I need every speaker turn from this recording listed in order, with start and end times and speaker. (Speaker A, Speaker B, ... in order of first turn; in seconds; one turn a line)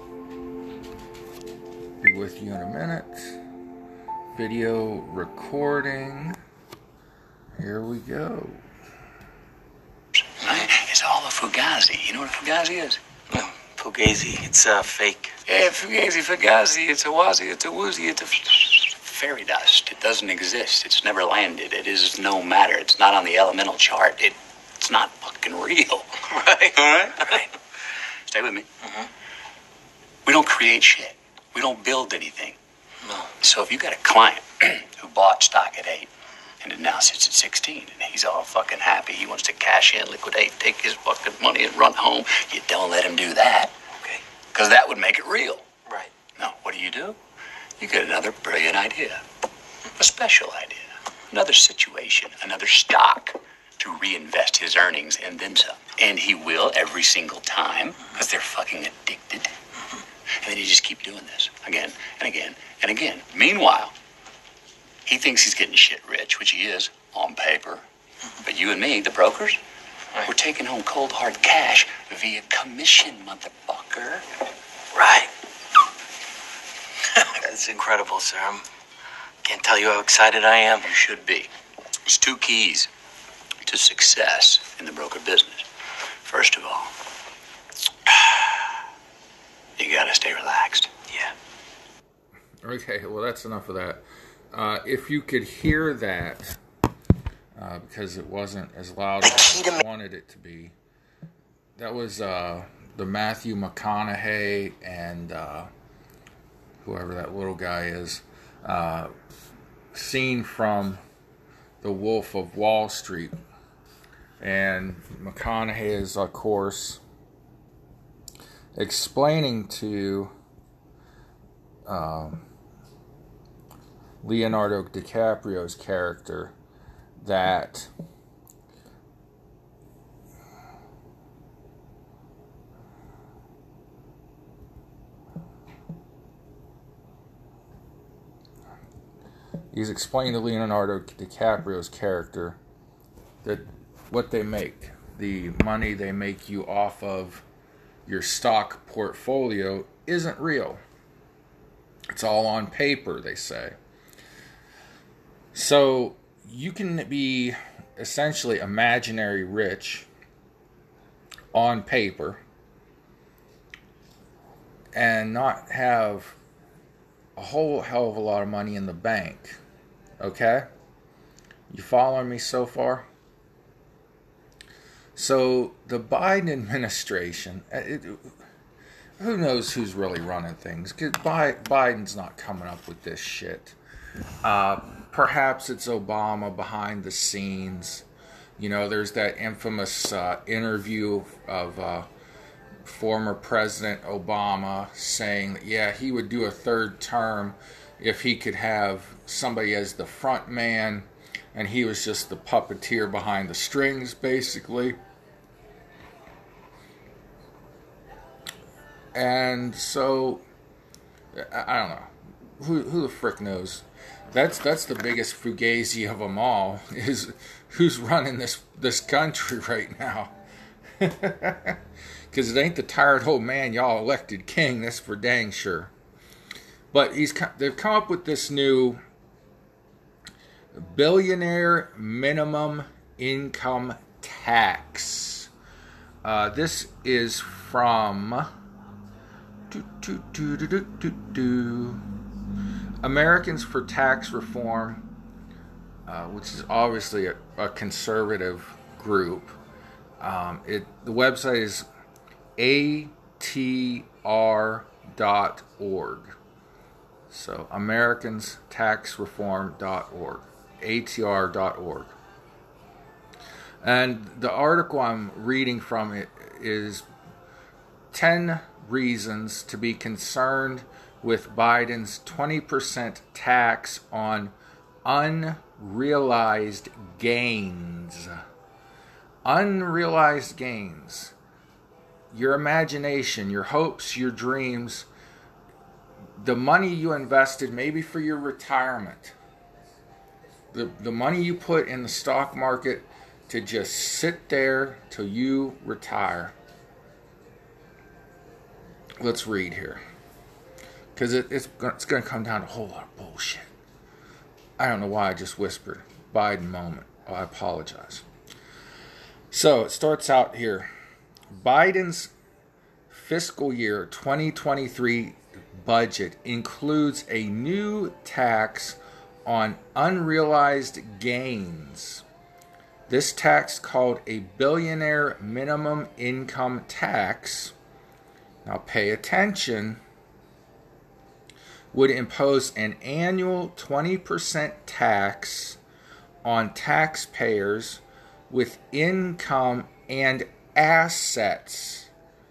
Speaker A: 2.0-3.4
Speaker A: 4.3-6.4
Speaker A: 7.6-8.6
Speaker B: 10.4-13.0
Speaker C: 13.3-15.3
Speaker B: 15.5-27.5
Speaker C: 26.4-26.8
Speaker B: 28.3-28.7
Speaker B: 30.2-32.6
Speaker C: 33.0-33.3
Speaker B: 33.4-43.7
Speaker B: 44.5-45.7
Speaker B: 46.4-47.2
Speaker B: 47.8-49.2
Speaker B: 50.0-59.5
Speaker B: 60.3-63.9
Speaker B: 65.0-67.8
Speaker B: 68.4-69.6
Speaker B: 70.2-74.2
Speaker C: 74.9-75.3
Speaker C: 77.2-78.6
Speaker C: 79.4-80.9
Speaker B: 80.8-81.5
Speaker B: 82.0-82.9
Speaker B: 83.6-85.7
Speaker B: 86.2-86.9
Speaker B: 88.1-88.5
Speaker B: 89.8-90.9
Speaker A: 92.6-96.6
Speaker A: 97.5-100.7
Speaker C: 99.2-99.8
Speaker A: 101.8-105.7
Speaker A: 106.8-109.1
Speaker A: 109.9-111.0
Speaker A: 111.8-113.4
Speaker A: 114.4-117.0
Speaker A: 118.7-120.3
Speaker A: 121.8-122.4
Speaker A: 124.2-126.5
Speaker A: 127.2-127.9
Speaker A: 139.7-142.6
Speaker A: 143.4-147.4
Speaker A: 148.1-150.8
Speaker A: 152.1-153.8
Speaker A: 155.5-160.1
Speaker A: 161.5-162.4
Speaker A: 164.9-166.4
Speaker A: 167.4-169.6
Speaker A: 170.2-170.7
Speaker A: 171.7-173.1
Speaker A: 175.2-178.3
Speaker A: 179.2-183.8
Speaker A: 184.4-188.1
Speaker A: 188.6-192.1
Speaker A: 192.8-205.0
Speaker A: 209.1-210.4
Speaker A: 211.3-220.3
Speaker A: 221.0-221.8
Speaker A: 222.3-225.9
Speaker A: 226.9-229.0
Speaker A: 230.7-235.5
Speaker A: 236.2-238.5
Speaker A: 239.7-242.0
Speaker A: 243.0-245.0
Speaker A: 246.1-249.6
Speaker A: 250.2-251.8
Speaker A: 252.6-256.4
Speaker A: 257.3-262.1
Speaker A: 263.8-267.0
Speaker A: 268.1-278.4
Speaker A: 279.4-281.3
Speaker A: 282.3-285.1
Speaker A: 286.4-289.3
Speaker A: 290.7-296.5
Speaker A: 299.2-300.0
Speaker A: 301.1-303.7
Speaker A: 304.8-308.2
Speaker A: 309.5-310.9
Speaker A: 311.5-312.3
Speaker A: 313.1-322.2
Speaker A: 323.1-327.7
Speaker A: 328.6-330.0
Speaker A: 331.9-335.8
Speaker A: 336.4-342.1